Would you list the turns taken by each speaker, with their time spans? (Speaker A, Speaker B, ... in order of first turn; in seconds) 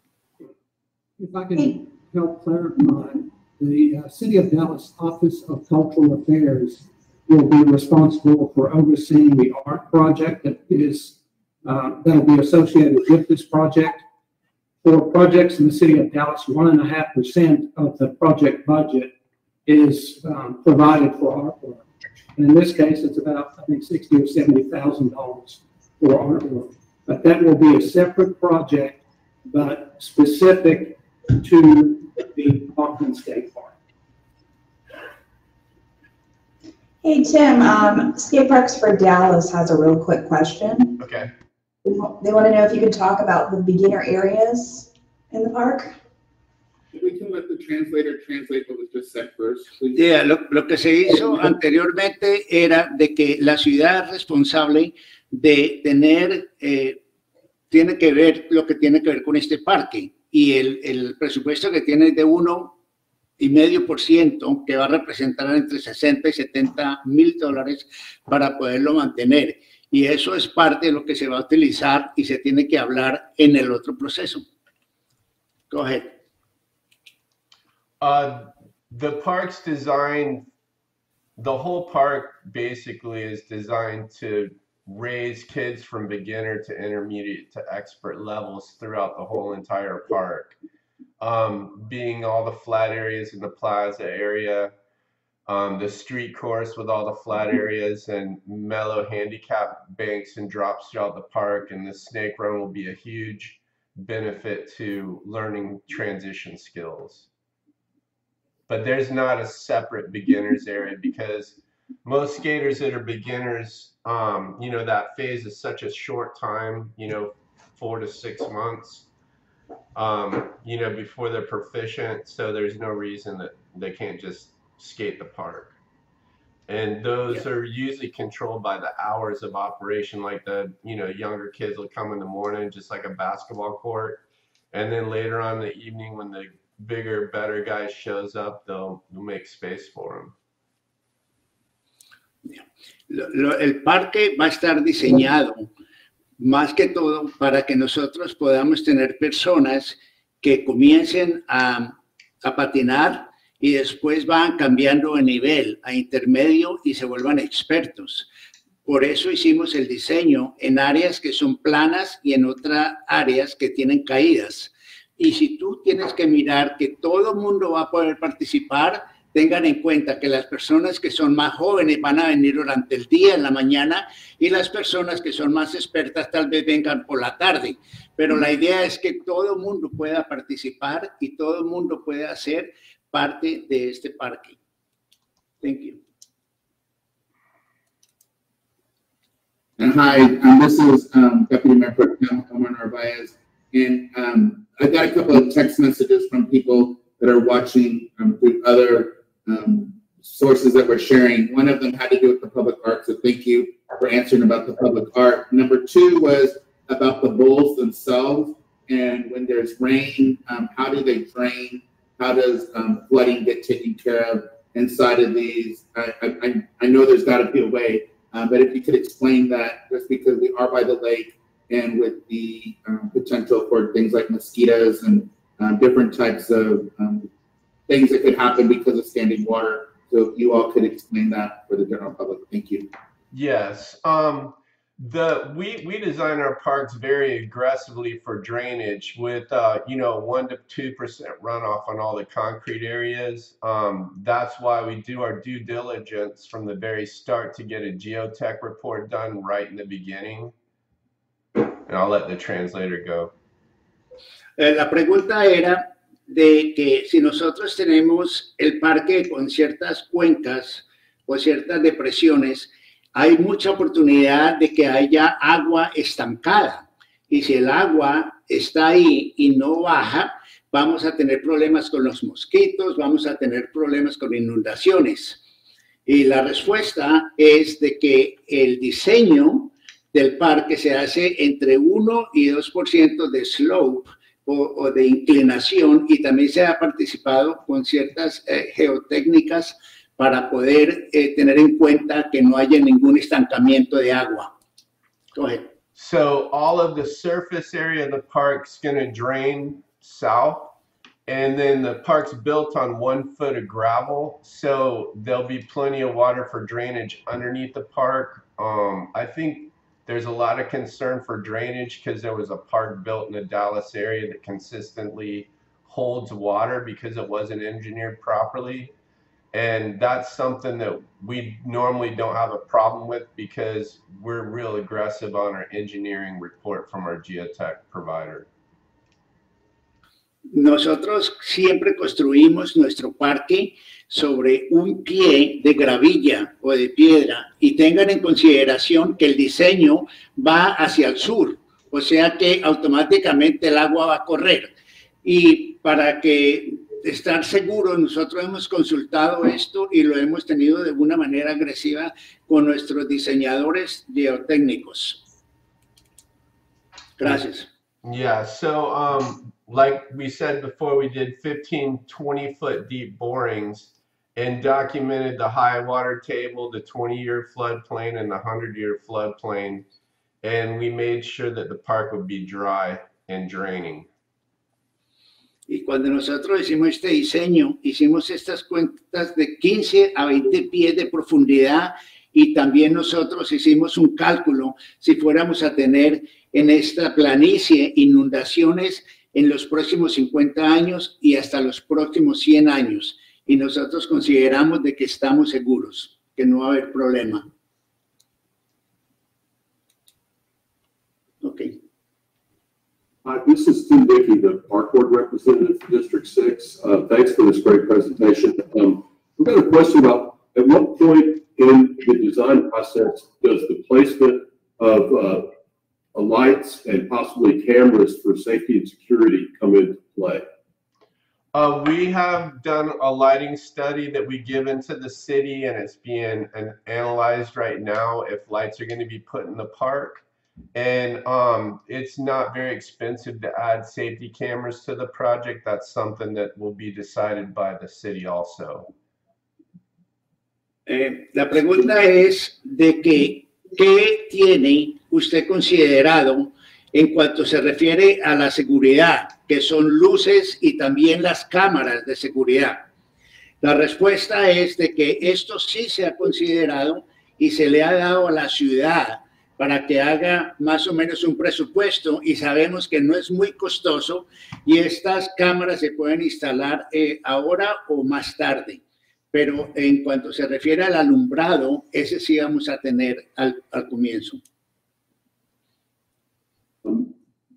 Speaker A: 1.2-14.1, 14.8-19.1, 19.7-33.8
Speaker B: 37.0-41.0, 41.9-45.9
Speaker C: 41.0-41.3, 78.0-80.5, 81.4-90.6, 91.2-94.7, 95.5-107.3, 108.7-119.1, 120.0-125.7, 126.7-134.2, 134.7-140.3, 233.3-250.5, 251.9-253.3, 295.9-300.7, 301.3-318.9, 319.5-328.5, 358.0-369.9, 370.4-374.1, 421.5-430.2, 430.7-438.9
Speaker D: 46.9-50.0, 189.8-227.3, 227.9-232.9
Speaker E: 50.0-57.0, 57.7-62.8, 63.4-74.5, 75.7-76.1, 142.5-145.7, 146.4-158.3, 158.8-184.6, 185.6-186.0, 254.6-275.4, 276.1-294.5, 295.4-295.7, 330.5-344.7, 345.2-355.2, 357.2-357.7, 375.7-397.5, 401.4-401.8, 440.9-452.8, 453.6-474.4
Speaker F: 403.2-415.5, 416.1-420.5, 476.8-477.1